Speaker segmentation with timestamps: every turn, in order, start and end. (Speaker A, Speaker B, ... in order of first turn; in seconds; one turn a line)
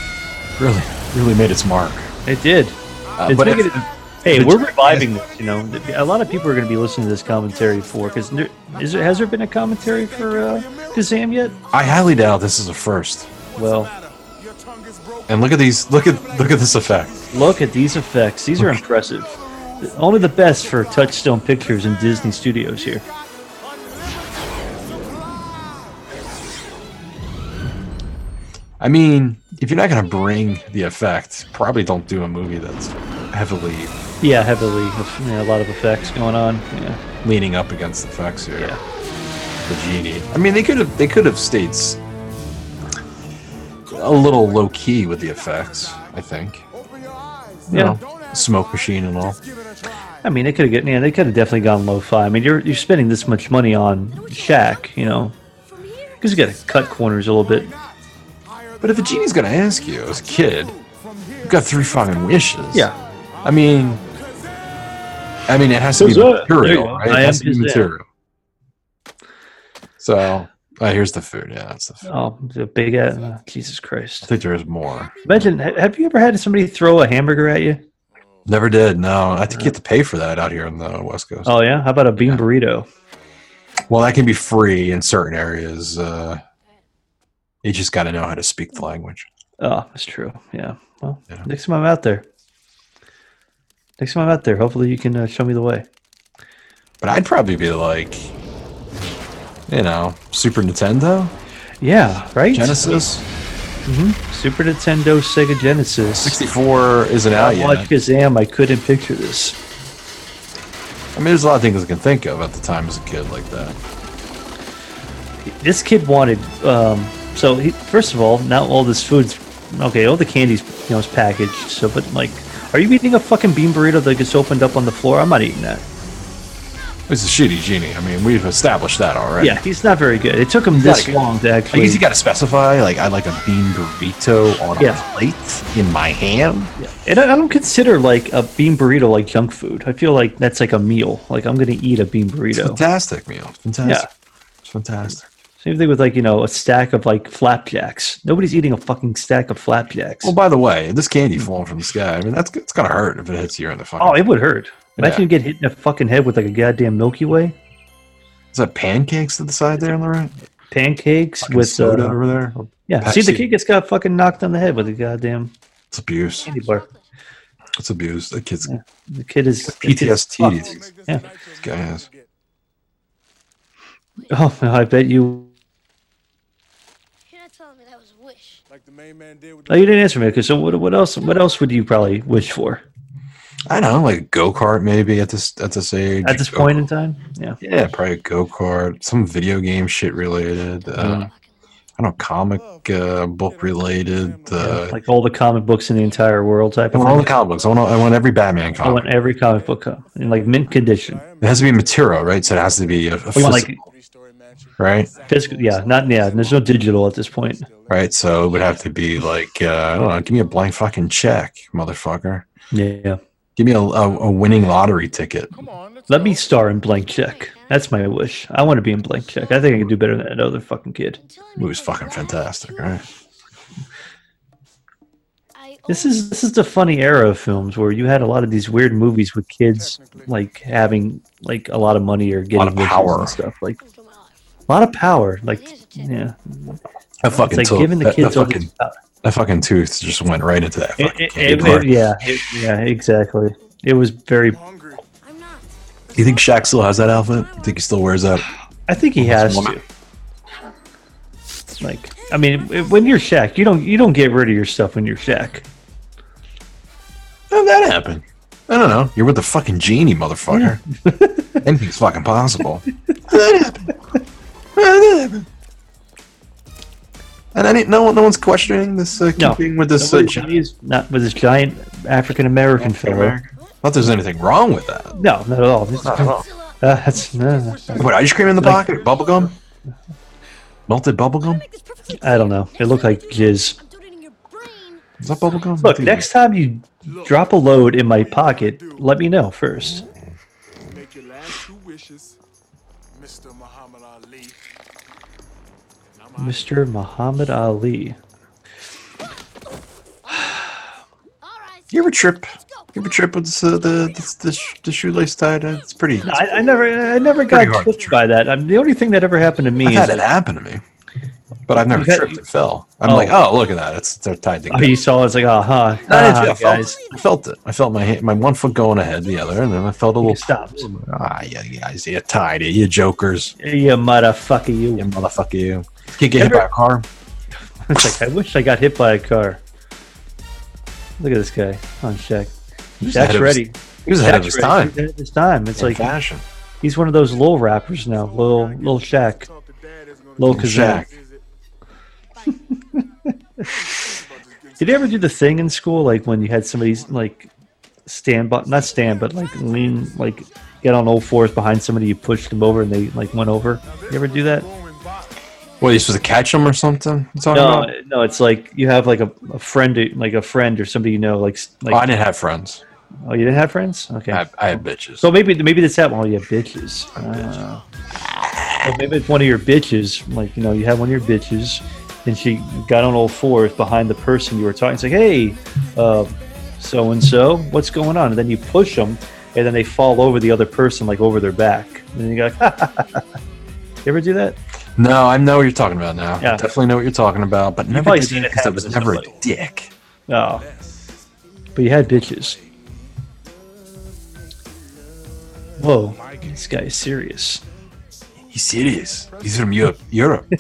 Speaker A: 0.6-2.1
Speaker B: 2.2-11.6
Speaker C: 3.1-4.0
Speaker A: 3.2-5.1
Speaker C: 4.5-12.2
Speaker A: 11.7-13.3
Speaker C: 13.3-18.0
Speaker B: 13.6-13.9
Speaker A: 15.3-17.1
Speaker B: 17.3-23.0
Speaker A: 18.6-18.8
Speaker C: 19.0-26.2
Speaker A: 28.8-33.9
Speaker B: 34.2-37.0
Speaker A: 37.2-38.8
Speaker A: 39.7-42.0
Speaker A: 43.9-46.6
Speaker C: 45.3-46.1
Speaker C: 46.7-50.3
Speaker B: 47.7-48.0
Speaker A: 47.7-49.4
Speaker B: 50.2-55.3
Speaker C: 54.4-55.1
Speaker D: 55.7-56.5
Speaker B: 56.2-57.7
Speaker C: 56.4-62.4
Speaker A: 58.8-60.7
Speaker A: 61.4-62.9
Speaker C: 63.3-64.8
Speaker A: 63.4-64.0
Speaker A: 65.5-68.0
Speaker B: 66.0-67.9
Speaker A: 70.0-72.0
Speaker B: 72.1-74.3
Speaker C: 73.1-73.4
Speaker A: 74.2-75.1
Speaker C: 75.1-75.5
Speaker B: 75.3-77.8
Speaker C: 78.2-78.5
Speaker A: 78.5-81.5
Speaker B: 81.5-82.9
Speaker A: 82.2-82.4
Speaker A: 83.9-86.4
Speaker A: 87.6-89.3
Speaker B: 89.6-92.3
Speaker B: 94.0-95.9
Speaker A: 97.0-98.3
Speaker A: 99.7-101.3
Speaker B: 101.8-103.0
Speaker A: 102.5-103.3
Speaker B: 103.9-106.4
Speaker A: 106.2-107.9
Speaker B: 107.3-109.6
Speaker A: 111.2-113.8
Speaker B: 115.6-125.8
Speaker A: 127.1-129.6
Speaker B: 129.4-132.0
Speaker A: 130.7-136.7
Speaker B: 134.8-135.0
Speaker B: 136.8-142.8
Speaker A: 142.6-144.1
Speaker B: 143.8-144.1
Speaker A: 144.6-145.3
Speaker B: 145.6-150.3
Speaker A: 150.2-154.2
Speaker B: 154.0-157.6
Speaker A: 155.0-155.3
Speaker A: 158.5-160.3
Speaker B: 160.7-162.2
Speaker A: 161.4-163.5
Speaker B: 162.9-165.5
Speaker D: 164.7-165.0
Speaker A: 165.9-166.5
Speaker D: 166.4-167.1
Speaker B: 166.4-166.8
Speaker A: 167.8-168.7
Speaker B: 168.7-171.2
Speaker A: 169.7-170.8
Speaker C: 170.4-172.3
Speaker A: 171.6-172.1
Speaker D: 174.2-174.5
Speaker B: 174.3-175.5
Speaker D: 177.3-178.6
Speaker C: 178.7-180.3
Speaker B: 179.7-182.8
Speaker A: 183.7-186.8
Speaker B: 186.2-187.6
Speaker A: 187.6-191.3
Speaker D: 191.0-191.6
Speaker A: 192.0-195.0
Speaker C: 192.5-195.0
Speaker B: 194.6-197.3
Speaker A: 196.9-199.1
Speaker C: 198.8-208.9
Speaker B: 198.8-201.2
Speaker A: 201.4-203.7
Speaker B: 203.3-203.8
Speaker A: 204.8-205.1
Speaker B: 205.3-207.7
Speaker A: 207.9-212.5
Speaker B: 212.7-213.2
Speaker A: 213.6-215.5
Speaker C: 215.5-216.7
Speaker B: 216.1-221.2
Speaker D: 217.0-219.9
Speaker D: 221.2-223.2
Speaker A: 221.6-223.0
Speaker D: 225.6-226.3
Speaker B: 225.9-233.8
Speaker C: 229.7-230.7
Speaker A: 232.6-233.4
Speaker D: 233.8-234.5
Speaker B: 234.7-236.8
Speaker D: 235.5-236.3
Speaker A: 237.2-238.7
Speaker B: 237.3-239.0
Speaker A: 239.2-242.0
Speaker B: 241.0-244.6
Speaker C: 244.5-245.0
Speaker D: 245.2-247.9
Speaker C: 246.1-246.6
Speaker A: 246.2-248.5
Speaker B: 248.9-249.8
Speaker A: 249.2-249.8
Speaker B: 251.8-255.7
Speaker D: 252.3-253.3
Speaker A: 257.5-260.8
Speaker B: 260.5-261.6
Speaker A: 261.6-263.9
Speaker A: 264.8-265.5
Speaker A: 267.5-270.5
Speaker B: 269.4-273.4
Speaker A: 272.8-275.1
Speaker D: 273.6-273.8
Speaker D: 274.8-278.1
Speaker B: 275.2-278.9
Speaker A: 276.0-276.4
Speaker C: 277.7-279.5
Speaker A: 278.0-279.5
Speaker D: 278.9-279.2
Speaker A: 280.9-281.6
Speaker D: 281.4-285.1
Speaker B: 282.2-283.8
Speaker A: 285.2-286.3
Speaker B: 285.8-290.1
Speaker C: 287.0-289.3
Speaker C: 290.9-292.4
Speaker C: 293.1-294.6
Speaker C: 296.1-296.9
Speaker B: 296.4-298.2
Speaker D: 301.4-307.5
Speaker A: 301.9-306.5
Speaker B: 306.2-310.2
Speaker A: 307.4-308.2
Speaker A: 309.8-310.8
Speaker A: 311.7-315.0
Speaker B: 311.9-312.4
Speaker B: 313.1-313.4
Speaker B: 314.7-317.0
Speaker A: 316.1-323.6
Speaker B: 320.2-320.9
Speaker B: 323.6-325.1
Speaker A: 325.0-327.1
Speaker B: 326.4-326.7
Speaker B: 327.9-329.6
Speaker B: 331.2-332.5
Speaker A: 333.0-335.0
Speaker B: 333.1-336.1
Speaker A: 335.8-336.4
Speaker B: 336.8-339.5
Speaker C: 338.1-341.5
Speaker B: 340.4-341.1
Speaker A: 340.5-341.1
Speaker C: 342.4-343.0
Speaker C: 343.6-345.4
Speaker B: 344.8-347.5
Speaker C: 346.8-347.2
Speaker B: 348.1-354.7
Speaker C: 353.9-355.4
Speaker A: 355.8-357.9
Speaker B: 357.5-362.0
Speaker A: 361.9-362.8
Speaker B: 363.2-364.4
Speaker A: 364.3-365.3
Speaker B: 365.2-367.8
Speaker A: 367.2-367.4
Speaker A: 368.3-369.0
Speaker B: 368.8-383.2
Speaker B: 384.1-384.6
Speaker A: 385.0-389.9
Speaker B: 386.4-386.7
Speaker B: 387.9-389.3
Speaker C: 389.1-389.4
Speaker B: 390.3-390.6
Speaker C: 390.6-391.2
Speaker B: 391.8-392.6
Speaker C: 392.2-393.1
Speaker B: 395.8-397.6
Speaker C: 396.0-396.9
Speaker A: 398.5-400.5
Speaker C: 399.3-399.9